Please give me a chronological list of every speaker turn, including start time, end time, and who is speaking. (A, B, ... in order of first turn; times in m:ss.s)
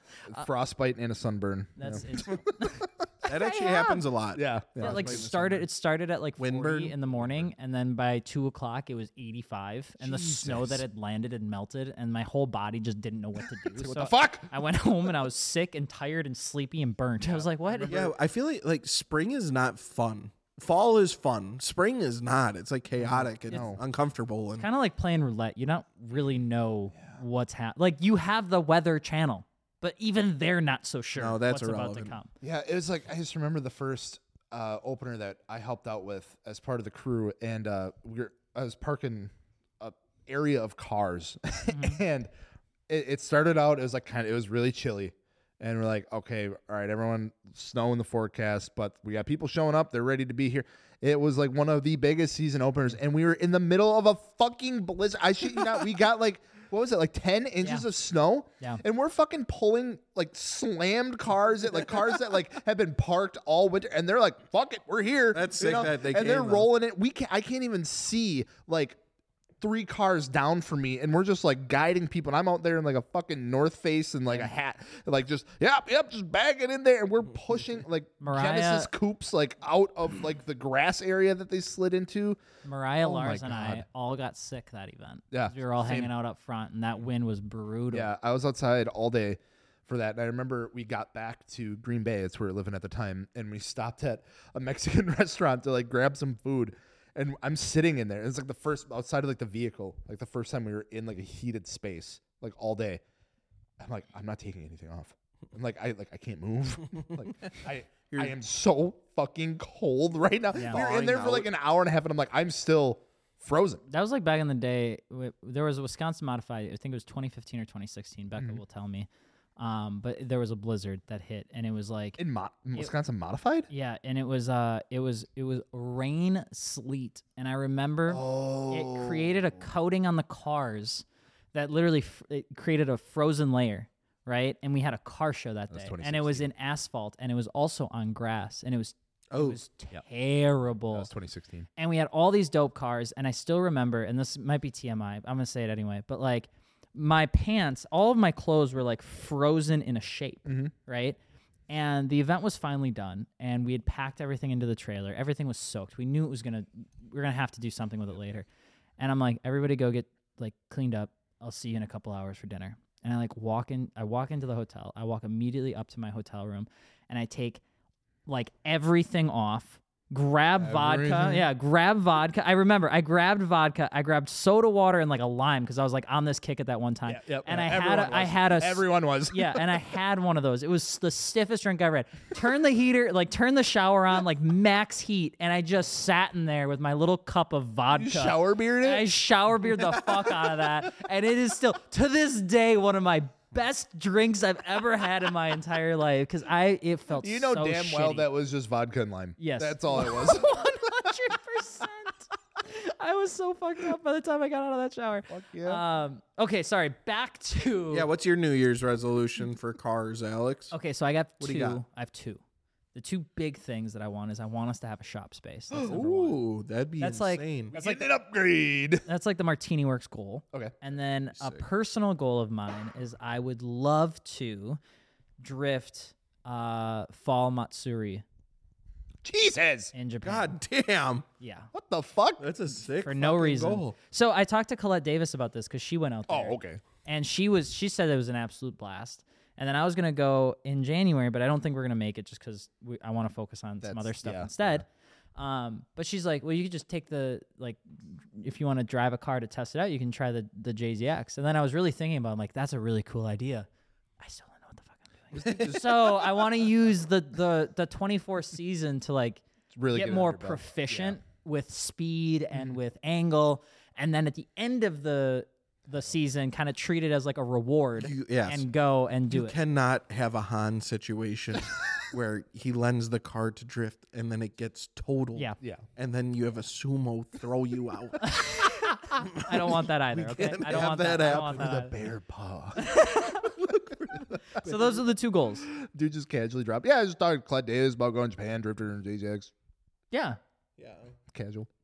0:00.3-0:02.8 A
0:01.8-0:04.0 B
0:03.3-0:05.6 C
0:04.3-0:05.2 A
0:04.8-0:18.0 B
0:06.4-0:07.0 C
0:10.0-0:10.8 A
0:13.7-0:14.5 A
0:17.2-0:18.1 A
0:17.9-0:24.7 C
0:23.0-0:23.8 A
0:23.5-0:23.7 B
0:24.6-0:32.3 B
0:31.2-0:32.1 C
0:32.4-0:42.3 A
0:41.7-0:42.0 B
0:42.9-1:09.0 A
1:05.3-1:06.7 C
1:09.6-1:22.4 A
1:18.2-1:18.9 B
1:22.6-1:28.1 B
1:23.0-1:23.8 A
1:25.3-1:26.1 A
1:27.9-1:43.0 A
1:43.8-1:53.8 A
1:50.5-1:50.8 B
1:50.6-1:51.5 C
1:53.9-2:02.2 B
2:02.2-2:03.7 A
2:03.7-2:21.1 B
2:08.1-2:09.6 A
2:15.7-2:16.5 A
2:19.3-2:19.6 C
2:20.9-2:21.7 A
2:21.8-2:31.2 B
2:30.4-2:30.7 A
2:31.7-2:38.4 B
2:39.0-2:47.6 B
2:48.3-3:18.3 B
2:50.6-2:51.5 A
2:57.1-2:59.8 A
3:07.9-3:09.1 A
3:17.2-3:21.1 A
3:19.4-3:28.1 B
3:25.3-3:25.8 A
3:27.9-3:30.7 C
3:30.7-3:32.4 B
3:31.4-3:31.8 C
3:32.9-3:36.4 B
3:35.7-3:36.1 A
3:35.9-3:37.7 C
3:37.0-3:38.0 B
3:37.7-3:39.0 A
3:39.0-3:44.8 B
3:41.3-3:41.6 C
3:45.4-3:48.2 B
3:49.2-3:49.9 A
3:49.9-3:50.5 B
3:50.2-3:51.2 C
3:51.4-3:51.7 B
3:51.7-3:52.5 A
3:52.4-3:54.0 C
3:53.0-4:13.7 B
3:56.3-3:56.8 A
4:03.8-4:04.8 A
4:14.2-4:29.6 B
4:15.4-4:16.3 C
4:15.4-4:15.8 A
4:19.7-4:21.2 A
4:28.0-4:28.6 C
4:29.3-4:38.3 C
4:38.2-4:41.9 B
4:39.2-4:41.6 C
4:41.3-4:43.0 A
4:42.8-4:43.5 B
4:43.6-4:44.2 C
4:44.3-4:44.9 A
4:44.5-4:45.7 B
4:45.7-4:49.5 A
4:50.1-4:50.4 B
4:50.8-4:51.1 C
4:51.3-4:51.7 A